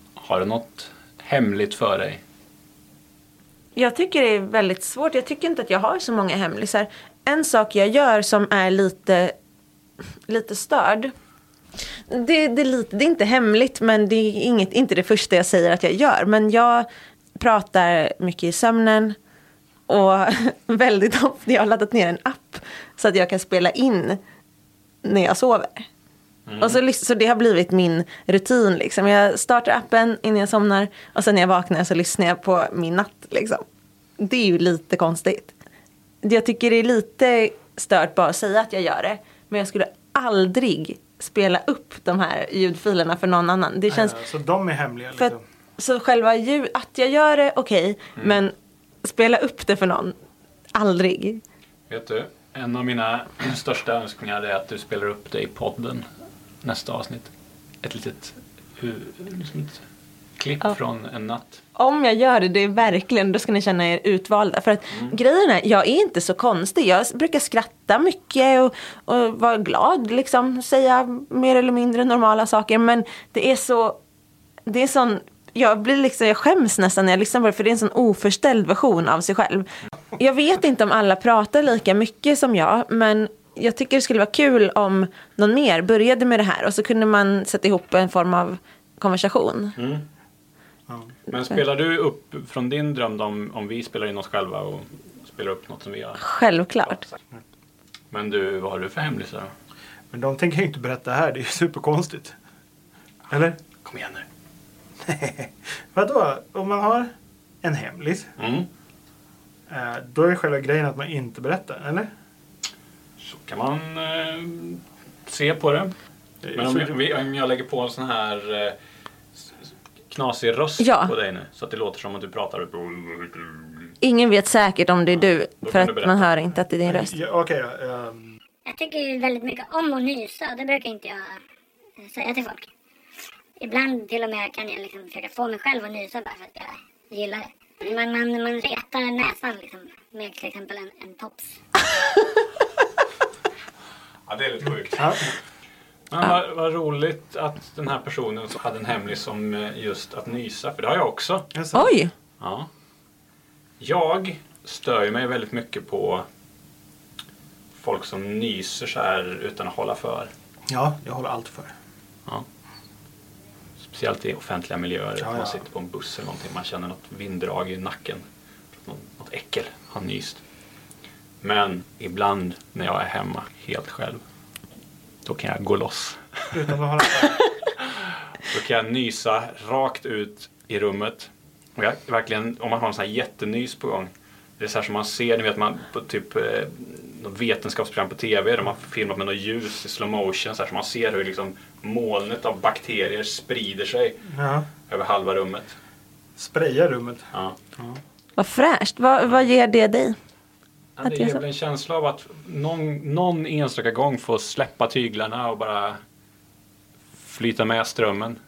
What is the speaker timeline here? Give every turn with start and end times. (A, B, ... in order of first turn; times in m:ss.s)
0:00.2-0:02.2 A
0:03.8-0:09.3 B
0:10.3-0:11.1 B
0:12.1-0:19.2 B
0:19.9-0:24.2 B
0:25.0-0:25.9 B
0:26.4-0:26.8 A
0:26.6-0:33.6 B
0:34.2-0:35.5 B
0:36.2-0:44.2 B
0:43.9-0:45.4 C
0:45.2-0:48.5 B
0:49.0-0:50.1 B
0:50.7-0:51.4 B
0:51.9-0:56.0 A
0:56.6-0:57.3 A
0:57.8-0:59.8 A
1:00.4-1:01.6 A
1:01.8-1:14.0 B
1:14.6-1:29.8 B
1:29.8-1:30.0 A
1:31.3-1:36.2 A
1:36.2-1:37.0 B
1:36.8-1:37.1 A
1:38.1-1:39.5 A
1:40.1-1:42.4 C
1:43.3-1:43.6 C
1:43.8-1:44.2 A
1:45.0-1:47.1 C
1:47.6-1:48.3 C
1:48.4-1:48.7 A
1:49.7-1:52.1 C
1:53.2-1:55.9 A
1:56.4-1:57.0 C
1:56.5-1:58.8 A
2:00.1-2:03.9 A
2:00.8-2:01.1 B
2:04.0-2:07.1 B
2:05.2-2:06.3 A
2:06.8-2:08.4 C
2:08.6-2:11.4 D
2:12.0-2:12.7 D
2:13.6-2:21.6 D
2:24.3-2:25.3 A
2:24.9-2:25.2 C
2:26.1-2:31.5 A
2:31.5-2:31.9 C
2:31.7-2:32.1 B
2:32.4-2:32.7 A
2:33.8-2:36.2 A
2:37.8-2:40.3 A
2:40.7-2:41.7 C
2:43.8-2:48.2 A
2:45.2-2:45.6 C
2:48.7-2:50.4 A
2:51.4-2:54.2 A
2:55.2-2:56.6 A
2:56.5-2:57.4 C
2:57.8-3:14.3 A
3:14.3-3:14.7 C
3:14.9-3:15.8 A
3:16.4-3:18.0 C
3:18.4-3:20.2 B
3:21.0-3:26.0 A
3:21.0-3:21.4 B
3:27.2-3:28.4 A